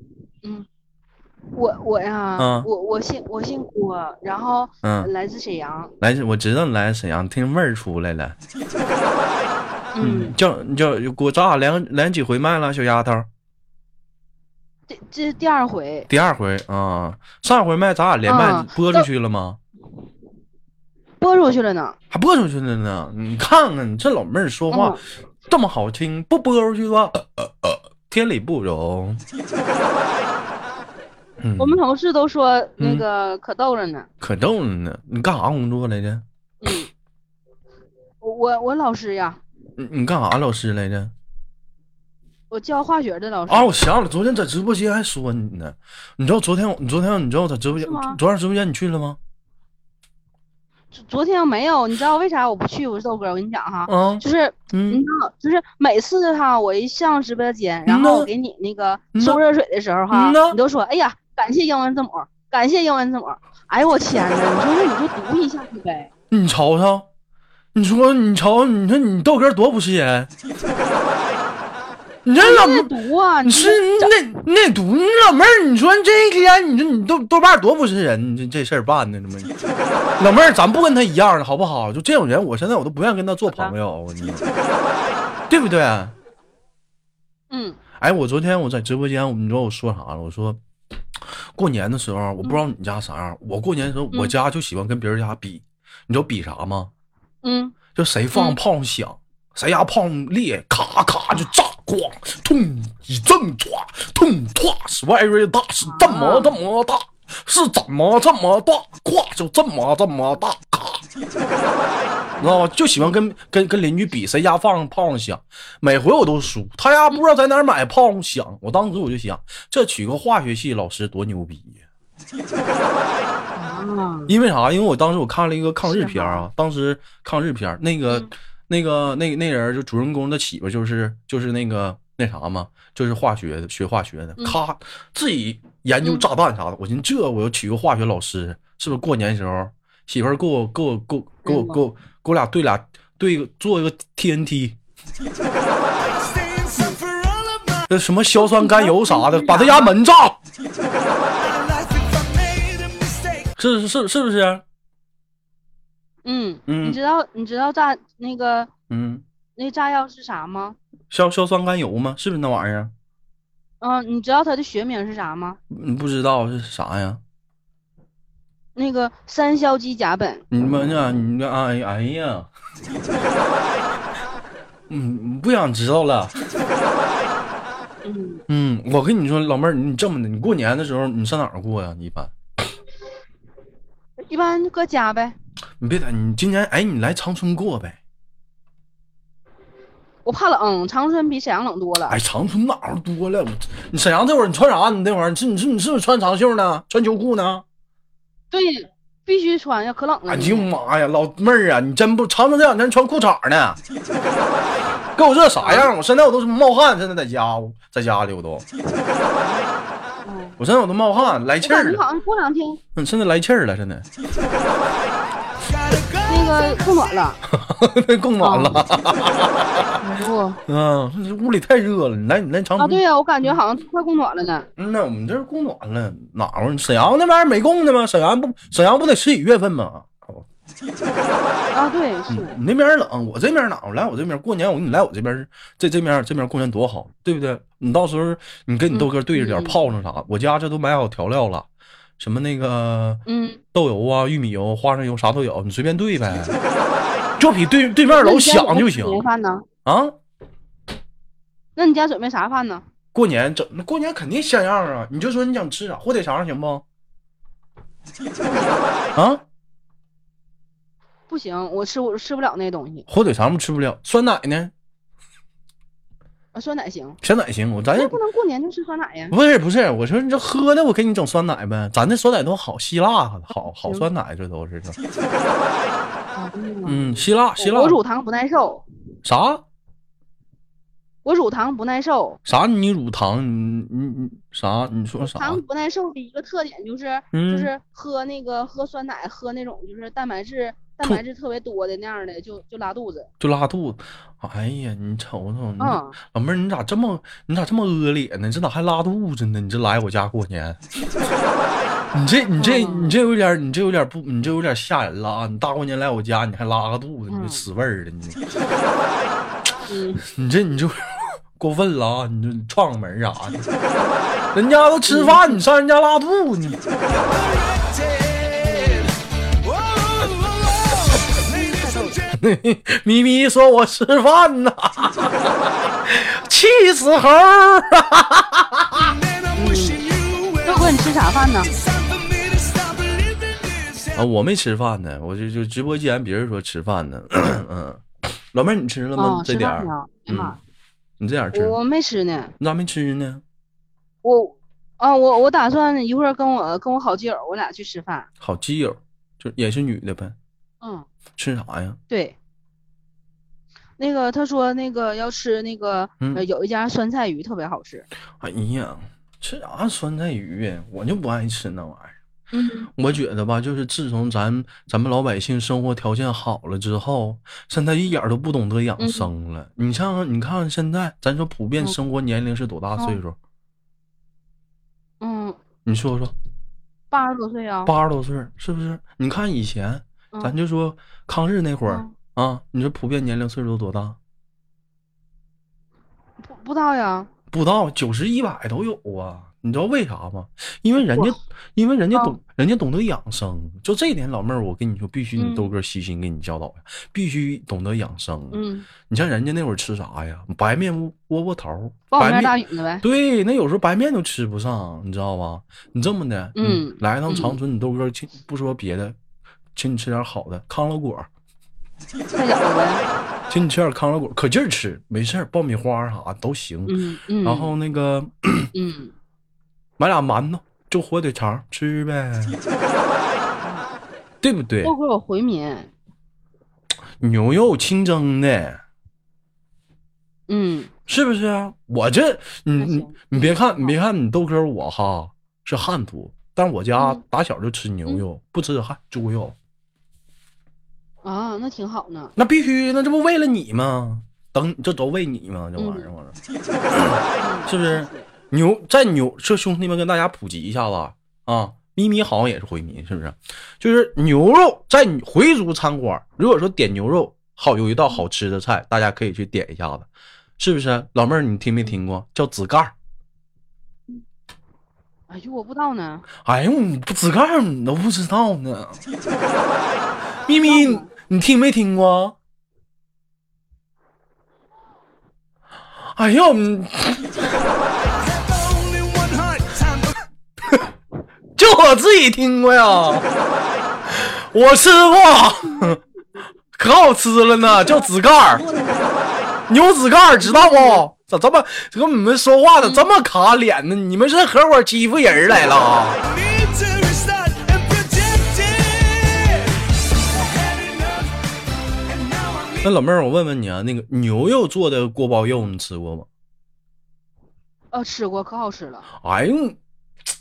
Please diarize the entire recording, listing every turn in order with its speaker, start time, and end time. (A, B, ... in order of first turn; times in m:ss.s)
0:01.5-0:05.9 A
0:02.4-0:02.7 B
0:04.8-0:05.1 B
0:06.0-0:08.4 B
0:09.9-0:10.4 A
0:10.0-0:13.3 B
0:14.9-0:16.1 A
0:16.1-0:19.6 B
0:18.3-0:19.1 A
0:21.2-0:22.0 A
0:22.1-0:29.2 B
0:24.7-0:25.0 A
0:31.4-0:31.8 B
0:31.6-0:34.1 A
0:32.8-0:33.1 B
0:34.2-0:36.2 B
0:36.6-0:36.9 A
0:38.2-0:39.4 A
0:39.8-0:41.1 B
0:42.5-0:43.7 A
0:43.5-0:49.2 B
0:47.8-0:48.2 A
0:50.9-1:06.1 A
0:53.9-0:55.0 B
0:57.9-0:58.3 B
0:59.2-0:59.4 B
1:00.1-1:00.6 B
1:06.3-1:07.1 B
1:07.8-1:10.3 B
1:12.3-1:12.9 B
1:12.4-1:14.2 A
1:13.4-1:19.5 B
1:20.2-1:24.5 B
1:25.5-1:26.2 B
1:27.5-1:27.8 A
1:28.0-1:30.6 B
1:31.2-1:36.9 B
1:37.4-1:37.8 A
1:38.0-1:51.0 B
1:45.8-1:46.6 A
1:52.4-1:52.7 A
1:52.4-2:01.8 B
2:03.6-2:04.3 A
2:04.3-2:24.8 B
2:05.8-2:06.5 A
2:16.0-2:16.3 A
2:21.4-2:21.8 A
2:26.0-2:27.9 C
2:27.9-2:30.4 B
2:28.4-2:29.9 A
2:31.4-2:33.5 C
2:33.6-2:34.6 B
2:36.2-2:38.7 A
2:36.7-2:37.0 B
2:38.9-2:39.2 B
2:39.6-2:40.8 A
2:41.1-2:42.9 B
2:43.8-2:45.6 A
2:45.7-2:47.2 B
2:48.8-2:50.4 A
2:50.5-2:52.5 B
2:54.9-2:56.4 B
2:58.0-2:58.4 A
2:58.5-3:02.3 B
3:04.3-3:05.4 A
3:05.8-3:08.0 B
3:10.2-3:12.2 A
3:12.1-3:17.6 B
3:18.5-3:20.7 A
3:20.3-3:23.8 B
3:25.2-3:28.7 B
3:25.6-3:25.9 A
3:29.4-3:29.7 A
3:30.2-3:30.6 A
3:30.6-3:32.0 B
3:31.2-3:32.8 A
3:33.0-3:34.1 B
3:35.6-3:37.2 C
3:36.3-3:37.4 A
3:37.5-3:40.0 B
3:38.4-3:38.8 A
3:40.0-3:40.6 A
3:40.7-3:43.6 B
3:42.8-3:44.7 A
3:44.8-3:50.5 B
3:51.7-3:52.6 A
3:52.3-4:01.7 B
3:58.9-3:59.8 A
4:02.2-4:03.2 B
4:03.3-4:03.6 A
4:03.7-4:06.6 B
4:07.4-4:09.2 B
4:08.1-4:09.7 A
4:09.8-4:10.2 B
4:11.8-4:12.8 A
4:13.1-4:16.8 B
4:18.5-4:18.9 A
4:19.2-4:19.4 B
4:21.3-4:23.1 A
4:23.1-4:24.7 B
4:26.5-4:27.2 A
4:27.2-4:28.2 B
4:27.9-4:29.4 A
4:29.3-4:35.0 B
4:33.8-4:34.1 A
4:36.4-4:38.9 A
4:36.9-4:38.0 B
4:39.2-4:39.6 B
4:41.2-4:42.4 A
4:42.5-4:45.6 B
4:45.2-4:53.3 A
4:47.3-4:47.7 B
4:53.4-5:00.8 B
4:55.8-4:56.2 A
5:02.1-5:08.4 B
5:02.6-5:03.2 A
5:07.3-5:07.6 A
5:09.9-5:10.2 A
5:10.2-5:13.7 B
5:14.0-5:14.3 A
5:14.5-5:16.8 B
5:15.1-5:15.6 A
5:17.2-5:22.4 C
5:18.7-5:19.0 A
5:21.5-5:22.2 A
5:22.4-5:29.1 B
5:29.0-5:34.2 C
5:29.6-5:30.0 A
5:30.6-5:31.7 A
5:34.2-5:40.6 B
5:39.2-5:40.6 A
5:41.2-5:41.8 B
5:41.5-5:42.5 A
5:42.6-5:43.4 B
5:44.2-5:48.3 A
5:48.4-5:50.4 B
5:50.8-5:51.1 A
5:51.4-5:52.0 B
5:52.1-5:52.4 A
5:54.0-5:58.1 A
5:58.4-6:02.2 B
6:02.5-6:02.9 A
6:03.0-6:13.4 B
6:09.0-6:09.3 A
6:15.2-6:15.6 A
6:15.9-6:16.3 B
6:17.1-6:17.9 A
6:17.9-6:24.2 B
6:21.9-6:22.1 A
6:26.4-6:27.3 A
6:27.5-6:49.2 B
6:31.0-6:31.4 A
6:35.4-6:35.7 A
6:38.5-6:38.9 A
6:42.1-6:43.0 A
6:46.6-6:47.6 A
6:49.8-6:51.3 B
6:52.3-6:53.1 A
6:53.5-6:58.7 B
6:56.9-6:57.7 A
6:58.7-6:59.1 A
7:00.0-7:02.6 B
7:03.6-7:03.9 A
7:04.4-7:04.9 B
7:04.8-7:05.9 A
7:07.2-7:08.8 B
7:10.5-7:10.9 A
7:11.1-7:19.6 B
7:12.8-7:14.0 A
7:21.2-7:22.3 A
7:22.4-7:26.4 B
7:25.8-7:26.1 A
7:26.9-7:42.9 B
7:27.4-7:28.3 A
7:45.3-7:46.3 A
7:46.4-7:49.0 B
7:50.5-7:52.4 B
7:50.6-7:51.1 A
7:56.1-7:57.4 B
7:58.1-8:00.2 C
8:01.6-8:03.2 B
8:04.1-8:06.0 B
8:05.4-8:06.0 A
8:06.8-8:08.6 B
8:07.6-8:09.2 A
8:09.7-8:16.2 B
8:10.4-8:11.1 A
8:12.8-8:13.0 A
8:16.2-8:19.8 C
8:20.3-8:21.3 C
8:22.0-8:22.9 C
8:22.8-8:26.3 B
8:27.9-8:29.1 A
8:29.2-8:29.8 B